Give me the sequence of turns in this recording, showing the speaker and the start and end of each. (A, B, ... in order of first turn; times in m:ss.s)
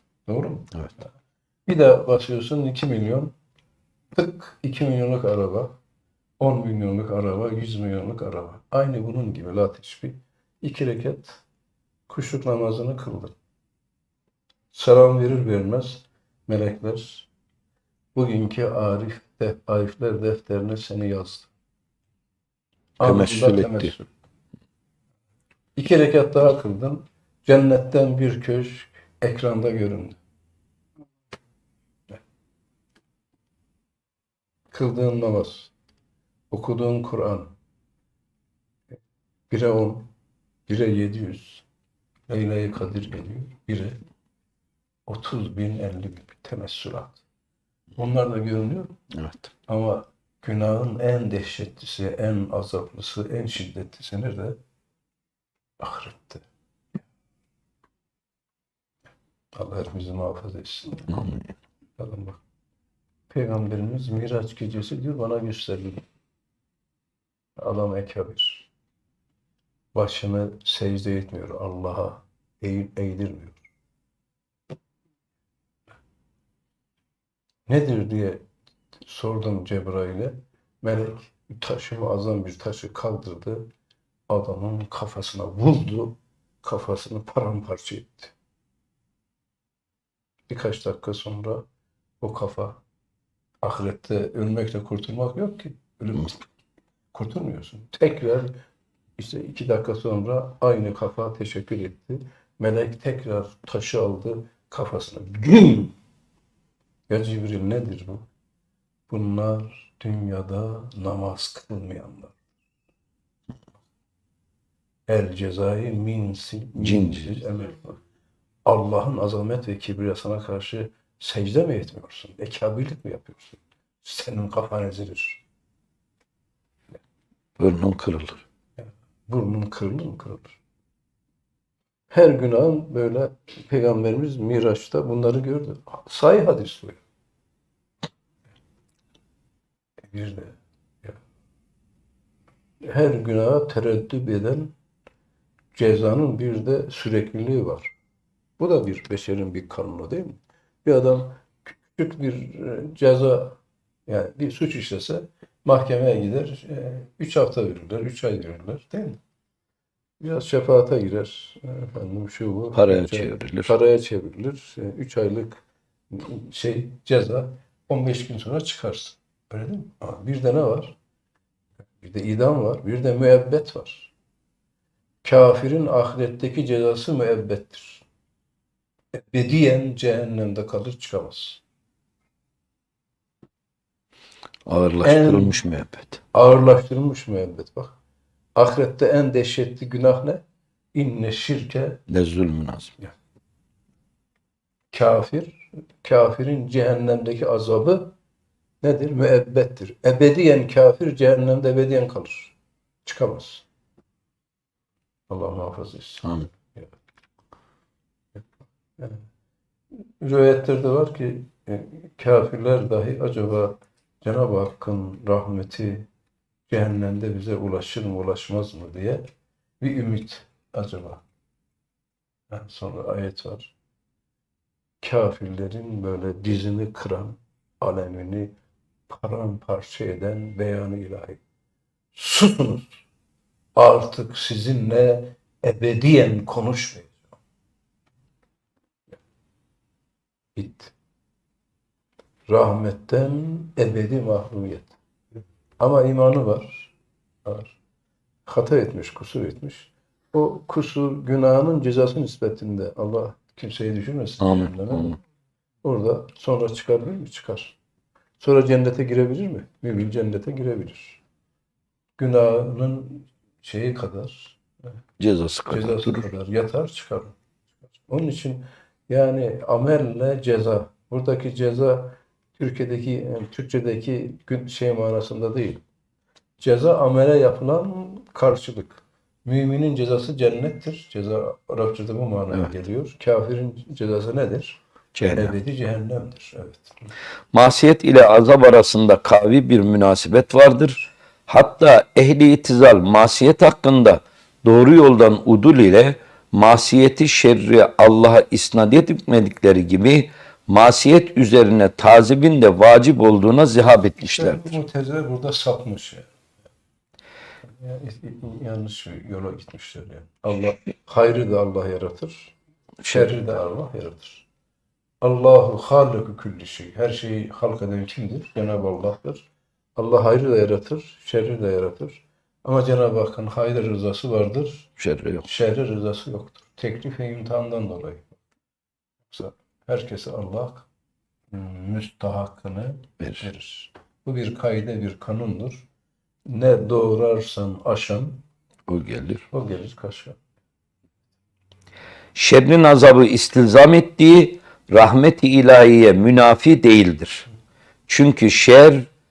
0:00.3-0:01.1 A
0:01.7-0:03.3 A
0:04.1-0:05.7 A
0:06.4-0:11.4 A
0:12.1-0:13.3 A
0:14.7-0:17.3 A
0:18.1-0:21.5 A
0:23.0-0:24.1 A
0:23.0-0:23.9 B
0:25.8-0:30.2 A
0:34.7-0:35.7 A
0:36.5-0:37.5 A
0:39.5-0:40.1 A
0:40.7-0:41.6 A
0:42.3-0:44.0 A
0:45.1-0:47.2 A
0:48.0-0:48.9 A
0:49.1-0:49.4 B
0:49.6-0:54.6 A
0:55.8-0:56.4 A
0:59.5-1:01.3 A
1:01.1-1:01.5 B
1:02.0-1:02.4 A
1:03.3-1:06.0 A
1:07.6-1:08.7 A
1:09.9-1:13.6 A
1:17.7-1:18.4 A
1:19.0-1:23.7 A
1:24.3-1:28.3 A
1:30.5-1:31.6 A
1:32.2-1:32.8 A
1:33.6-1:36.4 A
1:37.1-1:38.5 A
1:39.2-1:45.9 A
1:47.1-1:48.2 A
1:49.1-1:52.4 A
1:55.1-1:58.0 A
1:56.8-1:57.3 B
1:58.6-2:05.4 A
2:07.6-2:08.4 B
2:08.8-2:10.6 A
2:12.1-2:17.0 A
2:20.1-2:21.2 A
2:22.8-2:24.7 A
2:25.7-2:27.9 A
2:28.6-2:39.2 A
2:40.2-2:51.0 A
2:42.7-2:43.7 B
2:52.0-2:54.1 A
2:55.2-2:58.0 A
2:59.3-3:01.6 A
3:04.6-3:06.2 B
3:05.0-3:05.6 A
3:06.3-3:07.9 A
3:08.6-3:10.4 A
3:10.9-3:12.0 A
3:12.1-3:12.9 B
3:14.9-3:18.1 A
3:18.8-3:23.6 A
3:25.3-3:26.9 A
3:30.2-3:36.1 A
3:36.7-3:39.2 A
3:39.8-3:41.2 A
3:42.5-3:43.7 A
3:45.0-3:48.5 A
3:49.1-3:51.4 A
3:52.1-3:53.0 A
3:53.8-3:57.4 A
4:00.6-4:00.9 A
4:02.5-4:04.9 A
4:05.8-4:06.9 A
4:07.4-4:07.8 A
4:08.5-4:15.2 A
4:14.4-4:15.2 B
4:15.8-4:17.8 A
4:18.4-4:21.2 A
4:22.2-4:24.6 A
4:25.2-4:26.2 B
4:25.7-4:27.4 A
4:28.0-4:35.8 A
4:36.6-4:44.8 A
4:45.1-4:45.5 B
4:45.3-4:47.0 A
4:47.5-5:04.8 B
5:04.3-5:06.3 A
5:07.7-5:12.5 A
5:13.1-5:14.4 A
5:15.2-5:24.9 A
5:25.0-5:25.4 B
5:25.4-5:28.3 A
5:29.3-5:30.9 A
5:31.5-5:35.8 A
5:36.5-5:38.4 A
5:38.9-5:39.4 B
5:39.5-5:40.4 A
5:42.3-5:47.5 B
5:48.1-5:49.1 B